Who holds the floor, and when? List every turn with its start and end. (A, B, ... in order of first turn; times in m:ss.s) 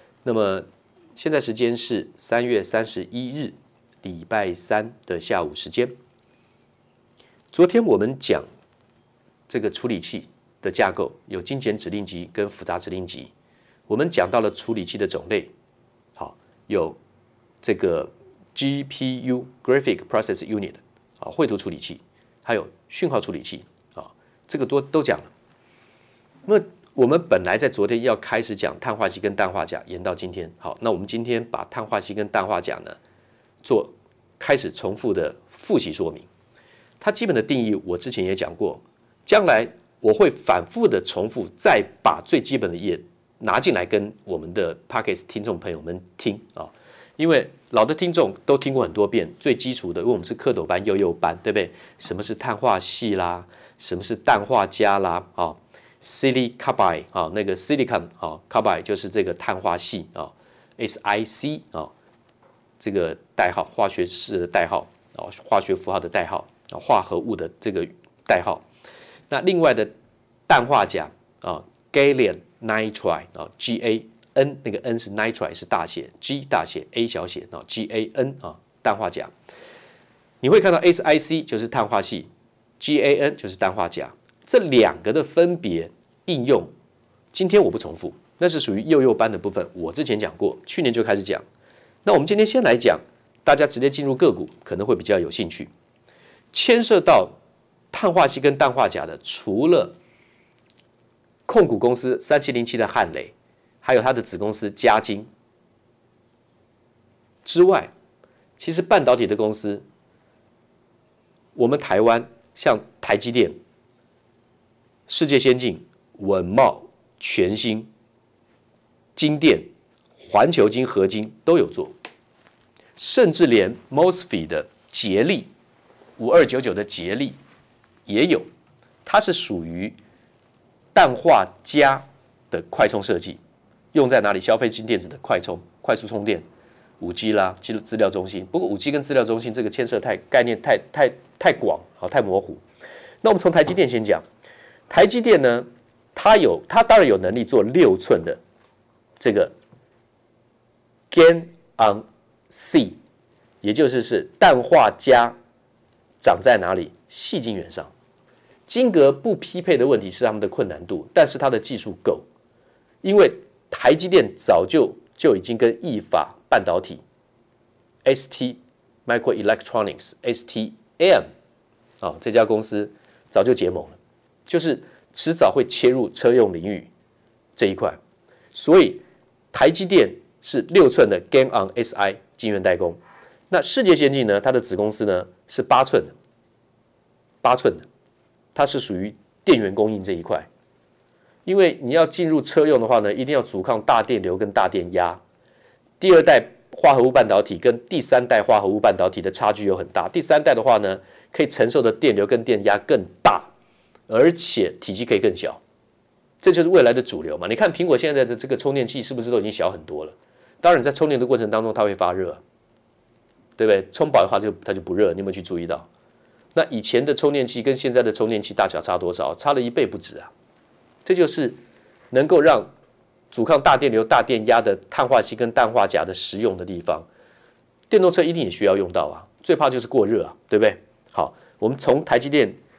0:00.2-0:05.9 A
0:07.5-0:08.4 A
0:09.5-0:13.3 A
0:13.9-0:15.5 A
0:16.2-0:17.0 A
0:17.6-0:25.3 A
0:26.4-0:33.0 A
0:33.6-0:36.3 A
0:37.0-1:01.9 A
1:02.8-1:08.6 A
1:09.3-1:09.9 A
1:10.5-1:19.3 A
1:20.4-1:22.3 A
1:22.8-1:26.7 A
1:27.3-1:31.4 A
1:32.0-1:35.7 A
1:36.5-1:37.3 A
1:37.9-1:40.0 A
1:41.4-1:45.3 A
1:47.4-1:47.9 A
1:48.6-1:49.8 A
1:51.6-1:53.5 A
1:55.1-1:57.9 A
1:59.2-1:59.7 A
2:00.2-2:01.9 A
2:03.0-2:05.5 A
2:06.2-2:07.4 A
2:08.0-2:08.4 A
2:09.0-2:10.0 A
2:10.9-2:13.4 A
2:13.9-2:16.4 A
2:17.0-2:22.6 A
2:23.2-2:24.2 A
2:24.9-2:28.4 A
2:29.2-2:29.5 A
2:31.1-2:33.0 A
2:33.6-2:35.4 A
2:36.2-2:37.9 A
2:38.7-2:42.2 A
2:43.0-2:47.0 A
2:48.0-2:51.3 A
2:52.0-2:56.9 A
2:57.6-2:58.0 A
2:58.5-3:03.0 A
3:03.5-3:06.1 A
3:07.4-3:07.9 A
3:08.5-3:10.5 A
3:11.4-3:15.2 A
3:16.0-3:23.5 A
3:24.1-3:25.6 A
3:26.4-3:32.4 A
3:33.6-3:35.9 A
3:36.5-3:40.3 A
3:41.0-3:41.6 A
3:42.1-3:42.7 A
3:43.3-3:47.1 A
3:47.9-3:52.6 A